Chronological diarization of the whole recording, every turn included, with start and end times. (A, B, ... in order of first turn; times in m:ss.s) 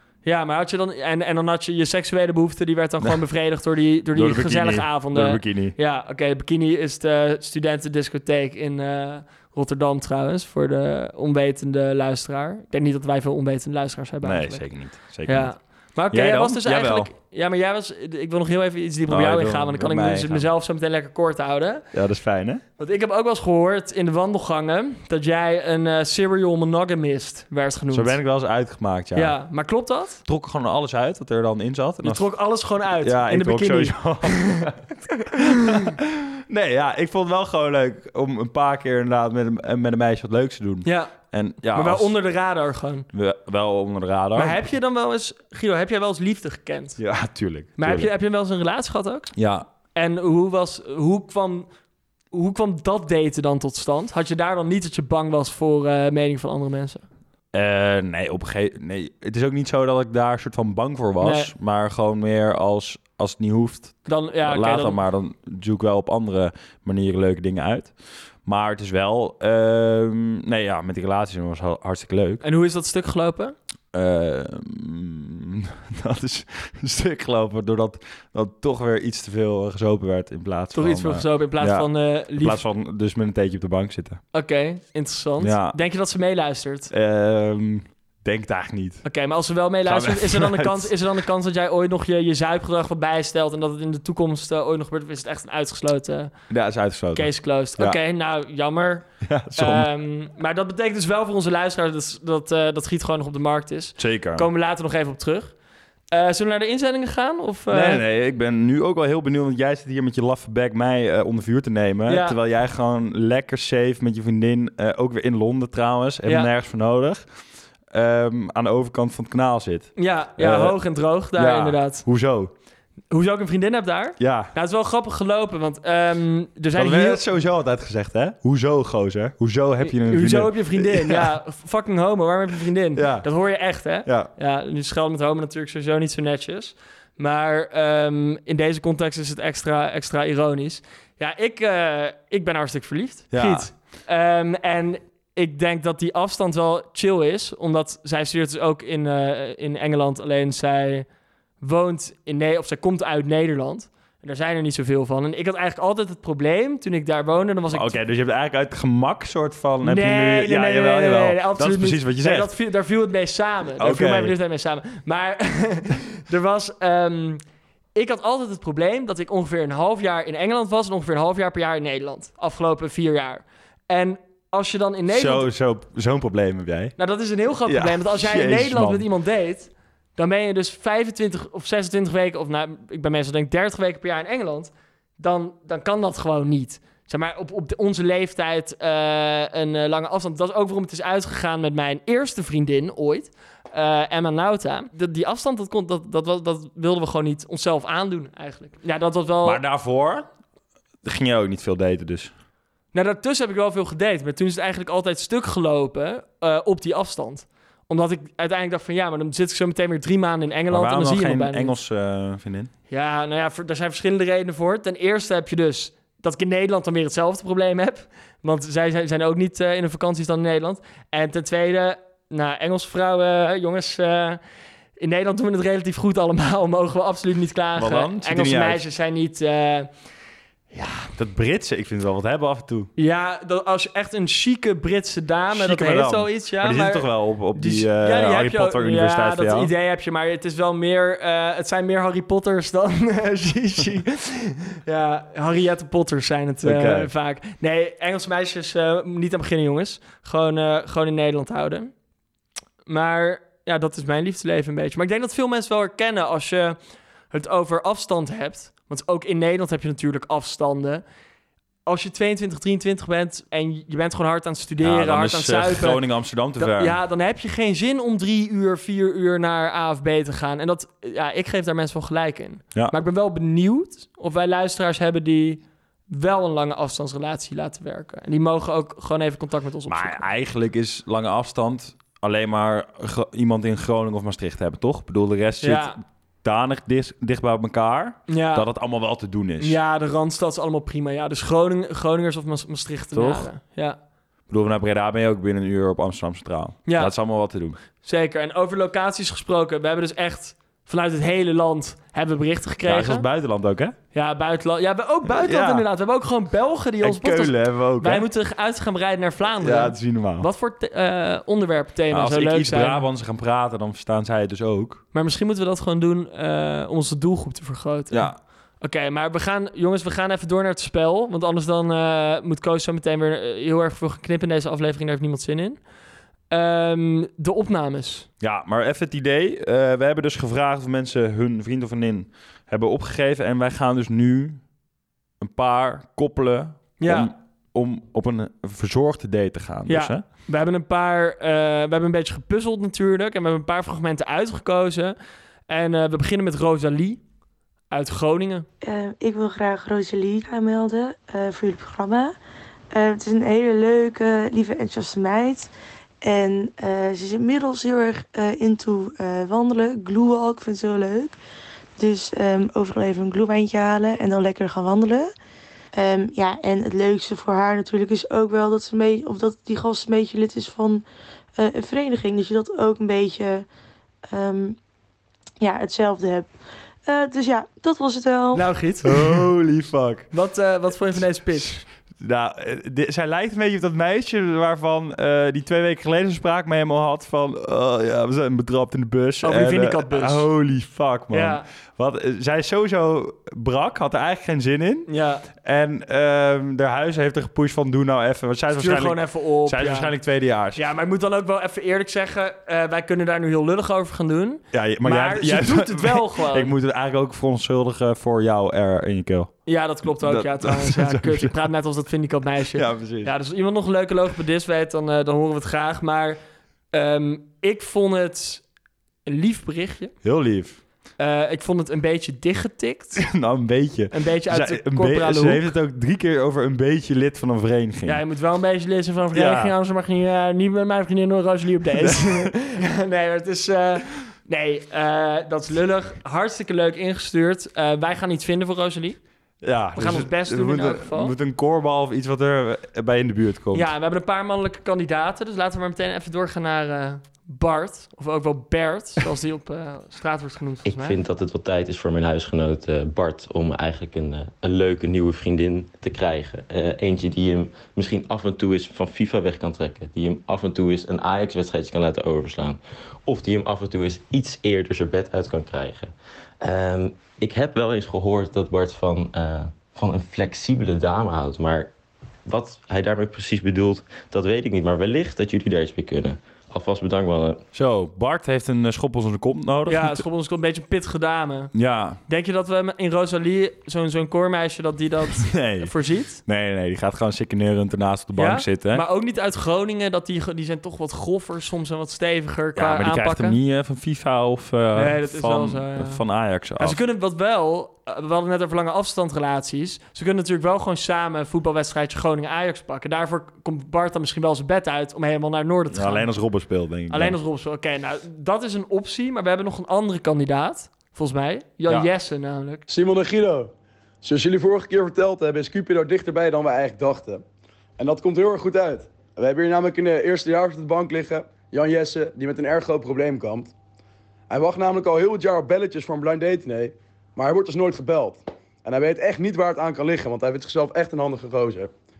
0:00.2-0:14.6 A
0:04.1-0:05.7 B
0:14.2-0:15.5 B
0:15.2-0:21.8 A
0:16.1-0:17.1 B
0:19.1-0:20.5 B
0:21.9-0:22.6 B
0:22.8-0:28.2 A
0:27.9-0:29.4 B
0:29.1-0:30.2 A
0:30.2-0:32.2 B
0:32.0-0:35.9 A
0:33.0-0:42.1 B
0:40.8-0:41.1 A
0:41.7-0:43.1 A
0:43.1-0:44.6 B
0:44.3-0:47.0 A
0:47.0-0:48.1 B
0:47.8-0:49.3 A
0:49.3-0:49.7 B
0:49.9-0:51.7 A
0:52.3-0:57.0 A
0:57.5-1:07.9 B
1:01.2-1:01.5 A
1:04.0-1:05.0 A
1:08.4-1:12.4 B
1:12.4-1:13.6 A
1:13.9-1:24.2 B
1:20.7-1:22.6 A
1:24.3-1:26.9 A
1:25.4-1:25.8 B
1:26.9-1:29.0 B
1:29.0-1:36.3 A
1:29.8-1:30.9 B
1:36.5-1:38.0 B
1:37.1-1:45.5 A
1:39.2-1:39.9 B
1:44.0-1:44.5 B
1:46.1-1:48.0 A
1:47.7-1:57.2 B
1:52.1-1:52.4 A
1:57.9-2:00.8 B
2:00.0-2:02.0 A
2:01.3-2:02.5 B
2:03.1-2:07.2 A
2:04.2-2:04.5 B
2:06.7-2:11.3 B
2:09.8-2:31.1 A
2:12.9-2:13.3 B
2:14.0-2:14.3 B
2:23.3-2:23.7 B
2:31.6-2:38.0 A
2:37.7-2:42.5 B
2:39.8-2:47.4 A
2:43.8-2:44.3 B
2:47.9-2:55.5 A
2:55.1-2:56.9 B
2:57.0-3:19.6 A
2:57.6-2:59.1 B
3:19.4-3:20.3 B
3:21.0-3:22.3 B
3:22.9-3:31.8 A
3:30.7-3:32.7 B
3:32.9-3:44.4 A
3:45.0-3:49.9 A
3:47.8-3:48.8 B
3:50.7-3:51.0 A
3:51.1-3:52.9 B
3:53.0-4:11.9 A
3:55.5-3:59.7 B
4:06.6-4:07.1 B
4:12.9-4:16.8 A
4:17.3-4:21.0 A
4:21.8-4:26.0 A
4:24.8-4:27.0 B
4:26.6-4:40.2 A
4:39.9-4:49.8 B
4:45.6-4:46.0 A
4:48.3-4:48.7 A
4:49.6-4:54.0 A
4:53.1-4:53.5 B
4:54.5-4:57.8 B
4:56.8-4:57.1 A
4:58.0-5:03.3 A
5:02.8-5:04.0 B
5:04.1-5:13.0 A
5:05.2-5:05.9 B
5:07.0-5:08.3 B
5:09.6-5:10.5 B
5:12.1-5:15.0 B
5:15.1-5:25.8 A
5:18.1-5:18.4 B
5:26.5-5:28.3 A
5:28.4-5:34.6 B
5:35.4-5:40.2 B
5:37.0-5:37.3 A
5:39.9-5:45.2 A
5:45.7-5:47.2 A
5:47.9-5:48.7 A
5:48.8-5:52.4 C
5:52.9-5:55.7 C
5:56.2-6:01.4 C
6:02.0-6:05.3 C
6:05.9-6:11.0 C
6:11.6-6:13.7 C
6:14.3-6:14.8 C
6:15.6-6:16.5 C
6:17.0-6:18.7 C
6:18.5-6:19.5 A
6:19.0-6:20.3 B
6:20.3-6:21.8 A
6:22.2-6:40.8 B
6:29.4-6:30.5 A
6:31.3-6:31.6 A
6:35.1-6:35.4 A
6:38.7-6:40.1 A
6:40.7-6:46.7 A
6:44.7-6:49.5 B
6:49.7-6:56.4 A
6:50.0-6:51.6 B
6:52.7-6:53.3 B
6:56.9-6:58.6 A
6:59.2-7:00.1 A
7:00.2-7:00.8 B
7:01.2-7:03.3 A
7:03.2-7:08.2 B
7:04.1-7:05.7 A
7:08.0-7:19.2 A
7:09.3-7:09.7 B
7:12.0-7:12.5 B
7:19.6-7:23.9 B
7:20.0-7:21.3 A
7:23.7-7:31.2 A
7:30.8-7:51.9 D
7:52.4-7:57.6 D
7:57.7-8:00.2 B
7:59.9-8:01.7 A
8:01.7-8:02.2 B
8:02.3-8:06.4 A
8:05.4-8:05.9 B
8:06.4-8:09.0 B
8:08.4-8:13.6 A
8:12.7-8:17.0 B
8:14.9-8:16.2 A
8:16.8-8:26.3 A
8:25.9-8:27.4 B
8:27.1-8:32.8 A
8:32.9-8:37.4 E
8:38.0-8:43.7 E
8:44.5-8:51.9 E